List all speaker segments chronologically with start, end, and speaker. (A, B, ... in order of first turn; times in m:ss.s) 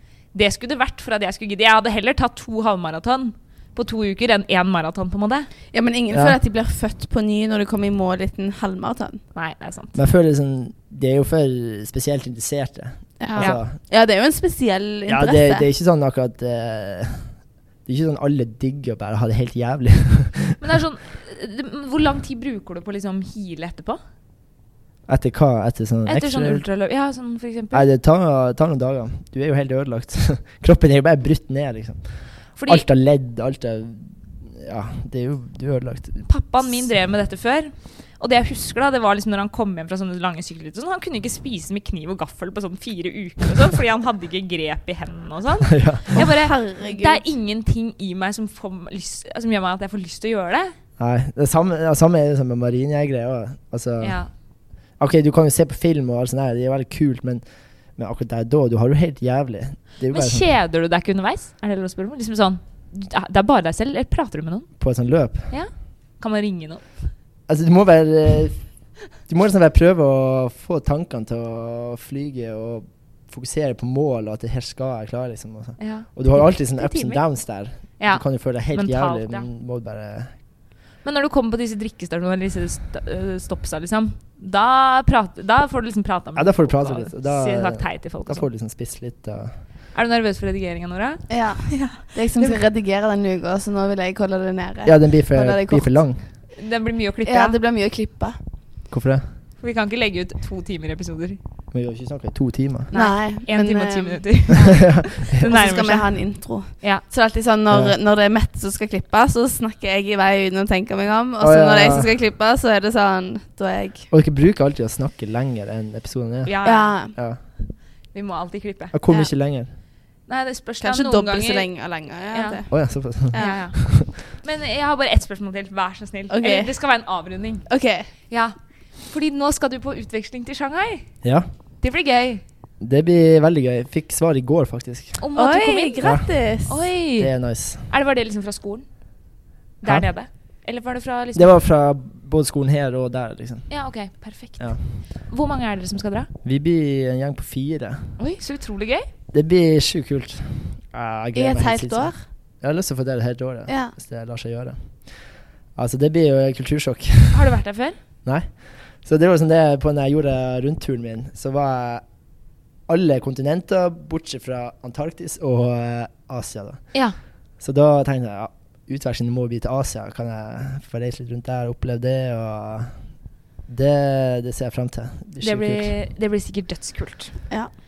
0:00.3-0:05.5 A
0:05.7-0:09.2 B
0:06.1-0:06.4 C
0:09.3-0:10.0 A
0:09.9-0:13.8 C
0:13.2-0:15.7 B
0:15.1-0:20.6 C
0:20.6-0:24.0 A
0:25.1-0:26.6 C
0:26.0-0:27.9 A
0:27.7-0:36.9 C
0:32.6-0:32.8 A
0:36.3-0:50.8 A
0:45.7-0:46.2 C
0:46.2-0:47.2 B
0:51.0-0:54.4 C
0:54.0-0:54.3 A
0:55.0-1:00.5 C
1:00.1-1:04.8 A
1:04.8-1:05.5 C
1:05.5-1:07.1 A
1:07.5-1:20.3 C
1:15.8-1:17.4 A
1:18.0-1:19.5 A
1:21.0-1:28.5 A
1:26.4-1:29.5 C
1:29.9-1:32.6 A
1:31.3-1:35.9 B
1:34.8-1:36.2 C
1:36.6-1:37.6 A
1:37.2-1:38.4 B
1:38.9-1:39.3 C
1:39.6-1:41.4 A
1:41.7-1:42.9 C
1:42.9-1:47.0 A
1:42.9-1:54.1 B
1:44.9-1:45.5 C
1:47.7-1:47.9 C
1:51.4-1:52.1 C
1:54.1-1:57.4 C
1:56.4-1:57.1 A
1:56.6-1:57.1 B
1:58.1-1:59.3 A
1:58.9-1:59.7 C
2:00.3-2:01.7 A
2:00.8-2:03.7 B
2:02.3-2:02.6 A
2:02.7-2:04.0 C
2:03.1-2:11.2 A
2:06.3-2:06.8 B
2:07.6-2:08.1 B
2:11.2-2:11.5 C
2:11.8-2:12.4 A
2:12.8-2:15.2 C
2:15.2-2:19.0 A
2:15.4-2:16.9 B
2:16.0-2:16.3 C
2:17.1-2:17.9 C
2:19.8-2:21.6 A
2:19.8-2:20.1 C
2:21.3-2:23.8 C
2:23.7-2:26.3 A
2:26.4-2:28.2 C
2:28.2-2:29.0 A
2:29.3-2:37.4 C
2:31.3-2:32.2 B
2:33.7-2:33.9 B
2:37.3-2:38.0 A
2:38.2-2:42.0 C
2:42.9-2:47.0 C
2:47.6-2:52.9 C
2:53.7-2:55.9 C
2:55.4-2:57.5 A